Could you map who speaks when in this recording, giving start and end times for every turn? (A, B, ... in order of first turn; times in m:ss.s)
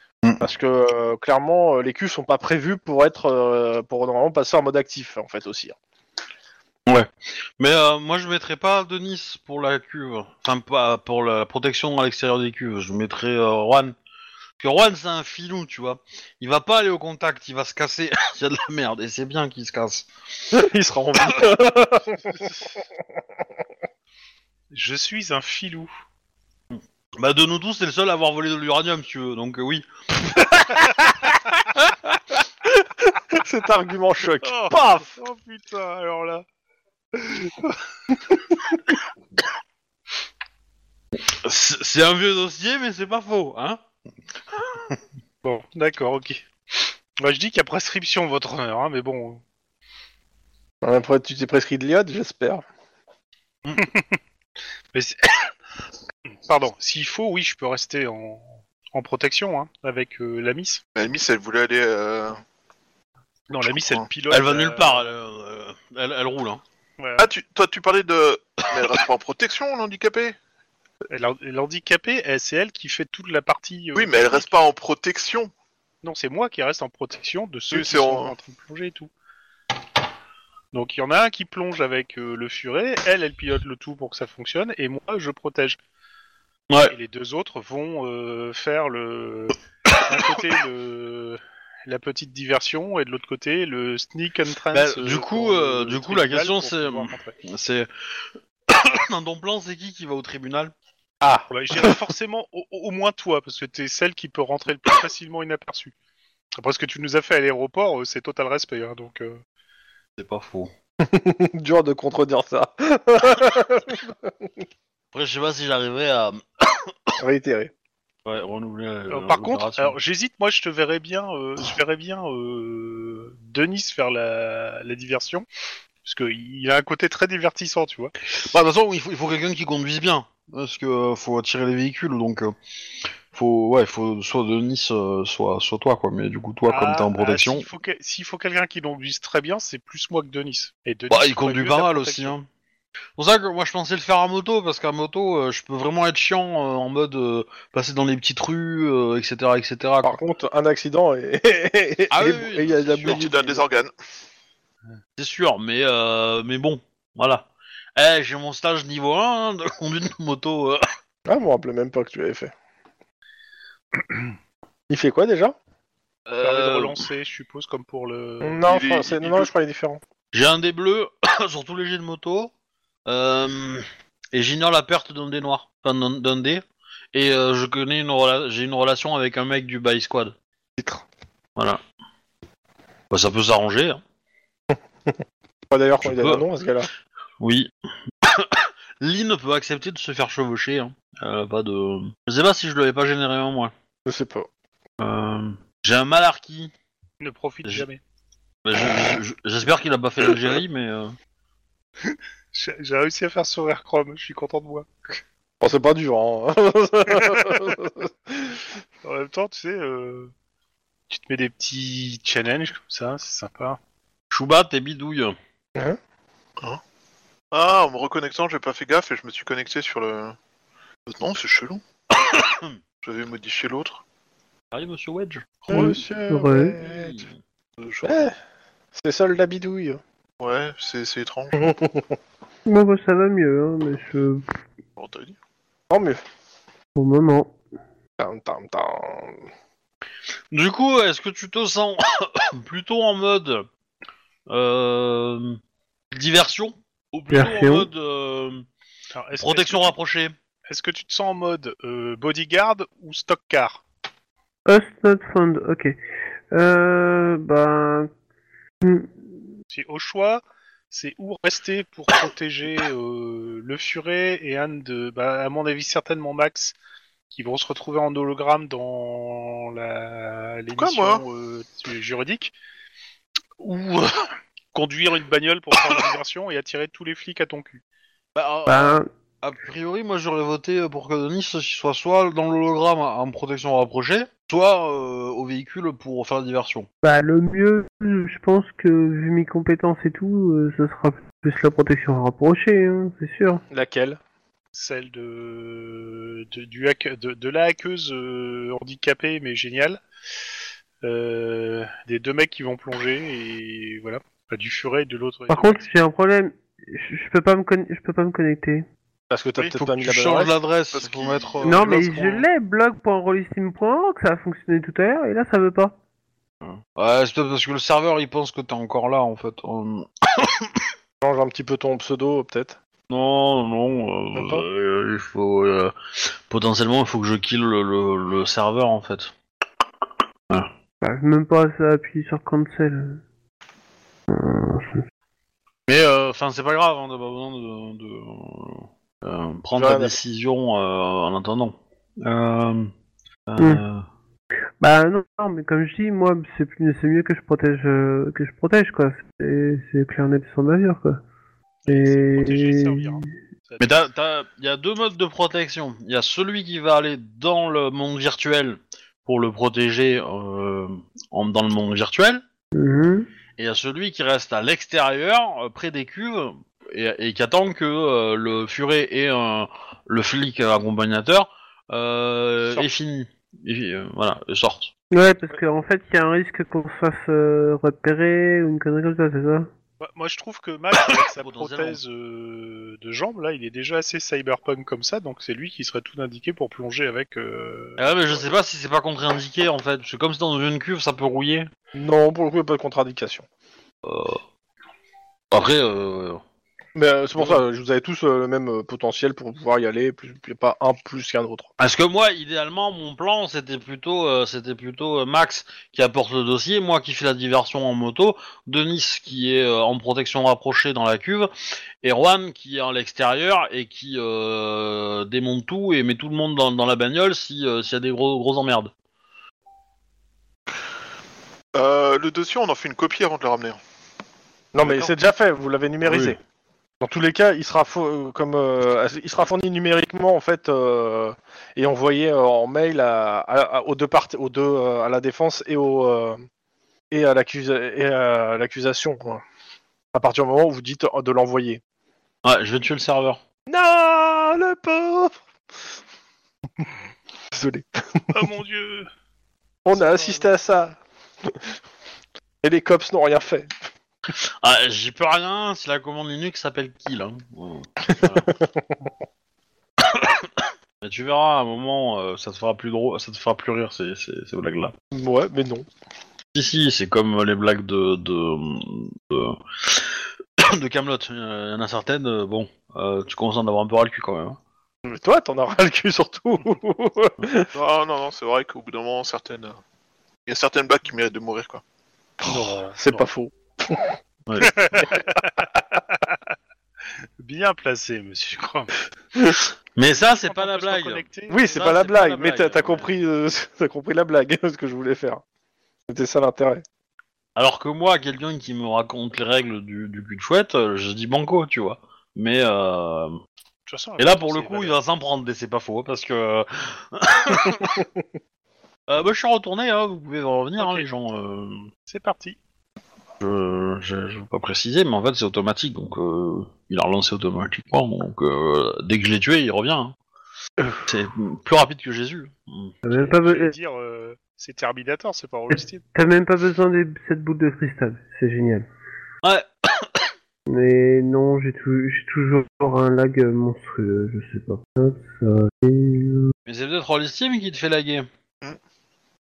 0:00.4-0:05.7 A
0:06.9-0:13.9 B
0:14.6-0:20.1 B
0:20.5-0:22.4 A
0:24.7-0:25.9 C
0:26.7-0:29.8 B
0:30.3-0:34.7 A
0:34.4-0:36.4 C
0:37.1-0:37.8 C
0:41.2-0:43.8 B
0:45.4-0:49.4 C
0:50.8-0:52.6 A
0:53.7-0:54.2 C
0:54.9-0:55.5 C
0:56.4-1:00.8 C
1:00.9-1:02.4 D
1:03.5-1:05.1 C
1:03.6-1:04.0 D
1:04.3-1:06.6 B
1:07.0-1:07.3 C
1:07.2-1:10.4 D
1:11.1-1:14.6 C
1:13.9-1:15.5 D
1:16.0-1:19.1 C
1:17.7-1:18.3 D
1:20.7-1:25.8 C
1:26.7-1:26.9 B
1:26.9-1:37.4 C
1:34.7-1:40.7 B
1:41.2-1:42.0 A
1:41.5-1:45.9 C
1:46.6-1:49.4 C
1:50.2-1:50.7 B
1:51.0-1:54.5 A
1:55.1-1:57.1 B
1:57.2-1:57.7 A
1:58.2-2:00.0 B
1:59.1-2:05.4 C
2:06.0-2:08.1 C
2:08.4-2:12.5 B
2:13.3-2:17.7 B
2:16.7-2:22.3 C
2:21.1-2:22.4 B
2:23.2-2:30.2 B
2:30.0-2:33.6 A
2:32.1-2:33.3 B
2:33.0-2:33.9 D
2:35.2-2:40.8 B
2:41.2-2:42.5 A
2:44.9-2:45.6 A
2:46.3-2:47.0 B
2:46.4-2:48.6 C
2:48.4-2:50.0 A
2:48.6-2:49.5 D
2:50.3-2:52.5 B
2:53.0-2:56.6 B
2:57.1-3:00.4 B
3:00.8-3:01.0 A
3:03.1-3:04.0 B
3:05.7-3:06.9 A
3:06.0-3:06.4 B
3:07.4-3:07.7 B
3:08.2-3:13.7 B
3:14.0-3:14.5 A
3:15.0-3:16.7 B
3:17.2-3:18.0 C
3:18.6-3:21.1 B
3:22.0-3:24.9 C
3:25.6-3:28.6 A
3:27.2-3:27.6 C
3:29.0-3:30.3 C
3:31.1-3:33.8 C
3:34.3-3:35.4 B
3:37.5-3:40.4 D
3:41.0-3:41.8 D
3:42.2-3:42.8 B
3:43.0-3:44.0 D
3:44.7-3:46.0 B
3:45.7-3:47.2 A
3:45.7-3:46.8 E
3:46.8-3:47.4 B
3:47.8-3:48.3 D
3:48.0-3:48.3 A
3:49.0-3:50.0 A
3:50.4-3:51.6 D
3:51.5-3:52.0 A
3:52.6-3:54.5 E
3:55.0-3:55.4 D
3:55.9-3:56.2 A
3:57.0-3:57.6 E
3:58.2-3:59.4 A
4:00.5-4:03.6 B
4:04.5-4:05.6 B
4:06.1-4:08.7 B
4:07.3-4:07.9 E
4:09.1-4:09.9 C
4:09.4-4:10.3 B
4:10.7-4:13.8 C
4:14.7-4:16.0 E
4:16.5-4:18.1 E
4:18.8-4:19.3 E
4:19.7-4:26.7 C
4:27.3-4:32.5 C
4:30.8-4:31.2 D
4:33.6-4:34.1 B
4:34.7-4:37.8 C
4:38.3-4:46.9 B
4:38.7-4:39.1 E
4:47.0-4:53.6 E
4:53.7-4:54.2 A
4:54.7-5:00.0 C
5:01.0-5:05.8 C
5:05.5-5:08.8 E
5:09.3-5:10.5 A
5:09.6-5:12.4 B
5:10.9-5:12.1 D
5:11.6-5:16.0 E
5:16.6-5:20.8 B
5:21.2-5:22.8 A
5:23.1-5:29.3 B
5:24.3-5:24.6 A
5:31.0-5:33.2 E
5:34.3-5:35.0 E
5:35.9-5:42.9 B
5:39.8-5:40.1 A
5:43.5-5:44.0 B
5:43.6-5:43.8 E
5:44.8-5:51.2 E
5:51.8-5:54.0 C
5:51.9-5:53.3 E
5:53.8-6:02.4 B
6:02.7-6:03.3 E
6:03.6-6:14.9 B
6:15.1-6:19.7 E
6:20.0-6:28.5 C
6:21.0-6:22.0 B
6:28.0-6:31.7 B
6:31.9-6:33.4 A
6:34.0-6:34.4 B
6:35.5-6:36.4 B
6:36.9-6:41.7 A
6:41.8-6:51.5 B
6:52.0-6:58.9 B
7:01.7-7:03.8 D
7:04.7-7:06.4 A
7:04.8-7:05.1 C
7:06.0-7:06.4 B
7:07.0-7:16.4 A
7:17.1-7:19.4 A
7:20.1-7:21.8 A
7:22.4-7:23.4 B
7:23.7-7:25.4 A
7:27.5-7:28.4 A
7:28.3-7:29.1 C
7:29.8-7:31.6 A
7:32.6-7:33.7 A
7:34.6-7:38.5 B
7:38.3-7:38.6 A
7:40.0-7:44.9 B
7:45.1-7:45.8 A
7:46.5-7:54.6 B
7:55.0-7:57.7 A
7:57.7-7:59.8 D
8:00.5-8:01.8 D
8:02.4-8:04.1 A
8:02.4-8:03.2 C
8:04.5-8:04.7 B
8:04.6-8:06.2 C
8:07.4-8:09.0 C
8:09.9-8:13.1 B
8:10.3-8:11.8 C
8:11.5-8:15.4 A
8:16.1-8:16.8 A
8:17.6-8:23.4 B
8:23.9-8:25.0 C
8:24.2-8:28.0 B
8:29.1-8:31.9 B
8:30.8-8:31.0 C
8:32.1-8:32.6 C
8:33.4-8:40.1 B
8:41.0-8:42.9 B
8:43.0-8:43.7 E
8:43.1-8:46.0 C
8:46.1-8:48.8 E
8:49.4-8:50.3 B
8:50.7-8:56.5 E
8:56.6-8:58.3 B